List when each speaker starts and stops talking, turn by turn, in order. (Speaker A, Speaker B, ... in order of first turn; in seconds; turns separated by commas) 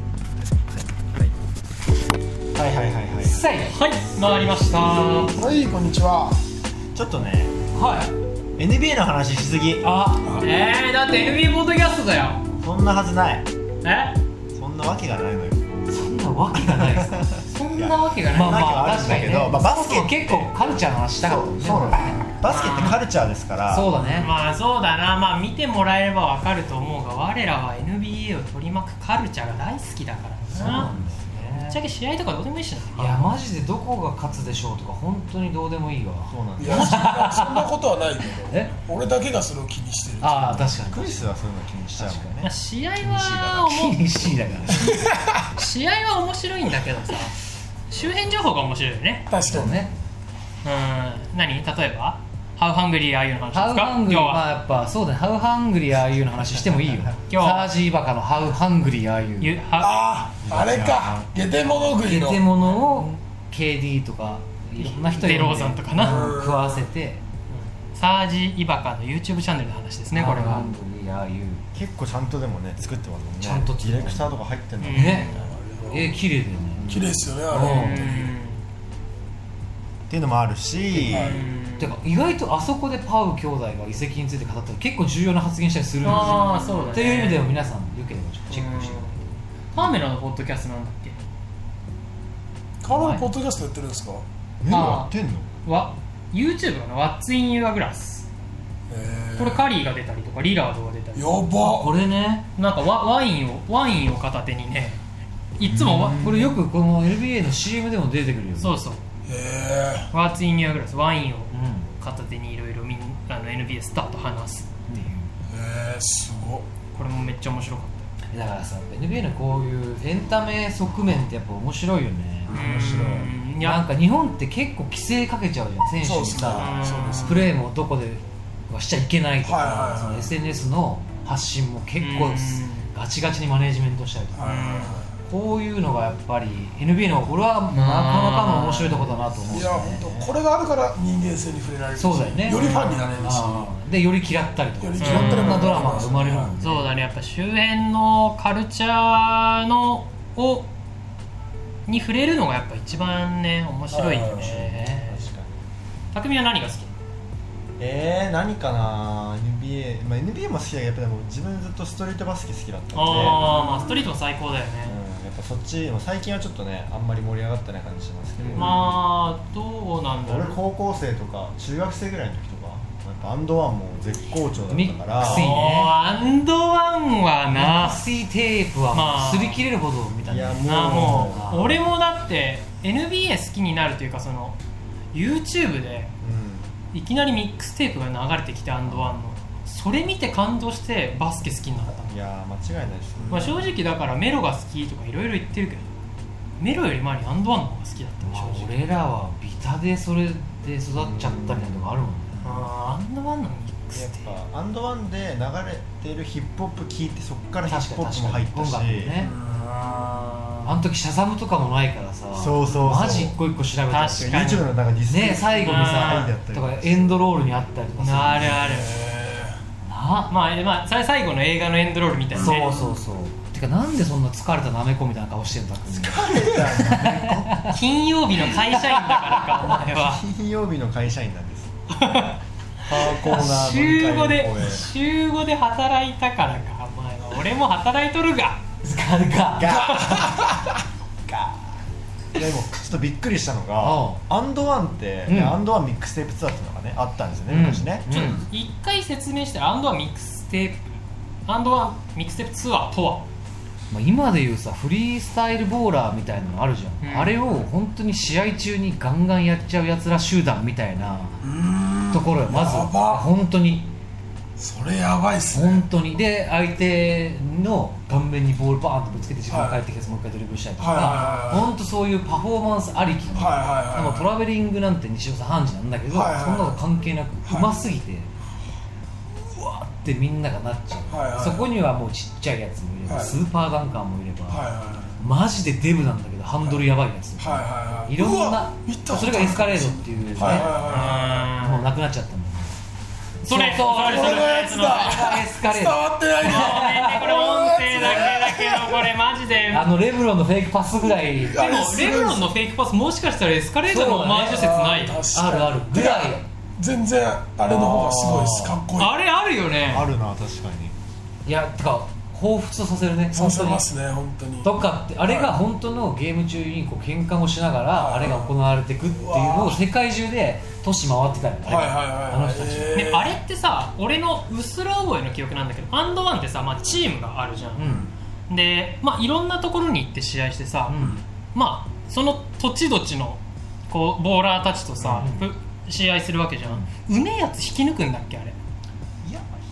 Speaker A: 2.5-3.4, Speaker B: 3.2-3.8, Speaker C: 3.6-5.4, Speaker D: 5.3-6.4, Speaker A: 6.9-7.5, Speaker C: 7.8-8.1, Speaker A: 8.6-9.9, Speaker B: 9.8-10.4, Speaker C: 10.4-12.4, Speaker A: 12.6-13.5, Speaker C: 13.8-14.2, Speaker A: 14.6-16.0, Speaker B: 15.9-17.3, Speaker A: 16.5-20.7, Speaker C: 17.5-19.3, Speaker B: 18.3-22.3, Speaker A: 21.2-23.9, Speaker C: 22.4-23.0, Speaker B: 23.7-24.3, Speaker C: 23.9-30.9, Speaker B: 30.5-31.8, Speaker A: 30.6-31.5, Speaker C: 31.6-33.4, Speaker B: 33.0-37.7, Speaker A: 36.3-37.0, Speaker D: 36.6-40.7, Speaker B: 38.5-38.7, Speaker B: 40.2-41.4, Speaker A: 40.8-42.5, Speaker B: 42.0-42.4, Speaker C: 42.4-44.0, Speaker A: 43.0-44.7, Speaker B: 43.6-45.0, Speaker D: 44.9-45.3, Speaker C: 45.6-47.4, Speaker C: 47.9-49.3, Speaker A: 48.0-48.5, Speaker D: 49.3-49.9, Speaker B: 49.5-50.0, Speaker C: 50.6-54.5, Speaker B: 53.5-59.5, Speaker A: 56.0-57.2, Speaker C: 57.3-57.7, Speaker C: 59.4-60.0, Speaker D: 59.8-62.4, Speaker A: 60.4-61.5, Speaker B: 62.0-67.2, Speaker C: 62.7-63.1, Speaker C: 64.8-66.3, Speaker D: 65.9-66.9, Speaker C: 67.5-70.7, Speaker B: 70.1-71.6, Speaker A: 71.7-75.5, Speaker B: 73.4-74.3, Speaker C: 74.8-75.5, Speaker B: 74.9-75.3, Speaker D: 75.4-76.2, Speaker B: 75.9-77.0, Speaker A: 76.8-77.2, Speaker D: 76.9-78.3, Speaker B: 77.5-78.1, Speaker C: 77.6-78.6, Speaker A: 80.1-81.4, Speaker D: 81.0-81.4, Speaker C: 81.1-82.0, Speaker B: 81.8-89.3, Speaker C: 86.0-87.5, Speaker C: 88.5-89.2, Speaker C: 89.7-91.2, Speaker D: 92.8-94.2, Speaker B: 92.9-93.3, Speaker A: 94.6-95.5, Speaker C: 94.7-95.1, Speaker C: 95.7-98.3, Speaker D: 98.9-99.7, Speaker C: 99.4-101.5, Speaker D: 101.2-102.0, Speaker B: 101.6-102.5, Speaker C: 102.6-105.0, Speaker C: 105.6-106.6, Speaker B: 105.7-108.8, Speaker C: 108.6-109.0, Speaker D: 109.3-110.1, Speaker C: 110.1-115.0, Speaker B: 111.5-111.9, Speaker B: 114.9-115.3, Speaker D: 115.5-116.7, Speaker C: 116.9-118.1, Speaker B: 118.3-134.5, Speaker C: 122.5-123.8, Speaker D: 126.0-127.5, Speaker C: 126.6-127.5, Speaker D: 129.4-130.3, Speaker C: 132.0-132.9, Speaker D: 134.3-135.1, Speaker C: 134.4-135.0, Speaker B: 135.3-140.1, Speaker C: 137.7-139.2, Speaker A: 139.2-140.4, Speaker D: 139.5-143.7, Speaker B: 142.0-146.9, Speaker C: 142.6-142.9, Speaker D: 144.8-146.6, Speaker C: 145.0-145.9, Speaker C: 146.6-150.7, Speaker C: 151.9-155.2, Speaker D: 153.9-154.6, Speaker B: 154.3-155.1, Speaker A: 155.1-155.6, Speaker C: 156.1-156.9, Speaker A: 157.8-163.6, Speaker C: 162.9-165.0, Speaker D: 163.3-164.0, Speaker A: 164.8-169.0, Speaker B: 168.4-168.8, Speaker C: 168.6-170.6, Speaker A: 170.2-175.6, Speaker B: 174.7-176.0, Speaker C: 175.2-178.1, Speaker B: 177.5-181.8, Speaker C: 178.9-179.6, Speaker A: 180.2-181.5, Speaker C: 180.7-184.6, Speaker C: 185.1-186.1, Speaker A: 186.2-186.7, Speaker C: 186.9-192.2, Speaker A: 192.1-193.6, Speaker C: 193.3-195.9, Speaker C: 196.6-198.8, Speaker B: 198.2-202.6, Speaker A: 201.0-201.9, Speaker C: 202.4-204.4, Speaker A: 203.9-209.3, Speaker B: 207.7-209.3, Speaker D: 209.2-210.2, Speaker C: 209.4-210.7, Speaker B: 210.6-214.4, Speaker A: 212.3-213.4, Speaker C: 213.9-214.7, Speaker A: 214.1-217.3, Speaker B: 215.1-218.7, Speaker C: 215.6-216.3, Speaker C: 218.0-218.9, Speaker D: 218.6-219.6, Speaker B: 219.9-220.3, Speaker C: 220.3-222.7, Speaker B: 222.4-227.8, Speaker A: 225.9-227.8, Speaker C: 227.7-230.2, Speaker B: 228.7-229.6, Speaker A: 229.7-231.7, Speaker C: 231.9-238.6, Speaker A: 232.9-234.9, Speaker B: 238.8-239.8, Speaker A: 239.6-240.5, Speaker D: 239.7-240.5, Speaker C: 240.0-240.2, Speaker A: 241.3-241.8, Speaker A: 242.3-248.1, Speaker B: 243.8-244.2, Speaker B: 245.3-245.6, Speaker B: 247.5-248.4, Speaker C: 248.1-253.3, Speaker B: 253.9-261.4, Speaker C: 257.0-257.4, Speaker D: 261.4-263.3, Speaker B: 262.1-263.9, Speaker D: 264.6-265.9, Speaker B: 265.5-278.3, Speaker D: 269.5-269.8, Speaker D: 270.8-271.7, Speaker C: 271.0-271.4, Speaker D: 273.4-274.3, Speaker D: 276.1-276.8, Speaker B: 279.4-292.8, Speaker D: 281.1-281.7, Speaker D: 283.1-283.4, Speaker D: 284.5-285.2, Speaker D: 287.4-291.5, Speaker C: 290.4-291.9, Speaker C: 293.4-295.3, Speaker B: 293.4-297.3, Speaker D: 293.9-299.0, Speaker C: 296.4-299.9, Speaker B: 299.7-301.7, Speaker D: 301.3-302.6, Speaker C: 301.6-305.3, Speaker B: 303.9-304.8, Speaker D: 304.4-309.1, Speaker B: 305.3-306.5, Speaker B: 307.7-308.8, Speaker C: 309.0-310.1, Speaker A: 309.9-310.9, Speaker B: 311.4-313.9, Speaker D: 313.3-315.5, Speaker B: 314.6-323.0, Speaker D: 317.9-319.8, Speaker D: 321.6-323.4, Speaker C: 322.9-327.9, Speaker B: 327.8-328.1, Speaker D: 327.8-328.1, Speaker C: 328.5-331.0, Speaker B: 330.9-331.2, Speaker C: 331.5-338.6, Speaker A: 335.0-335.3, Speaker B: 335.2-335.5, Speaker B: 336.6-336.9, Speaker A: 339.2-339.6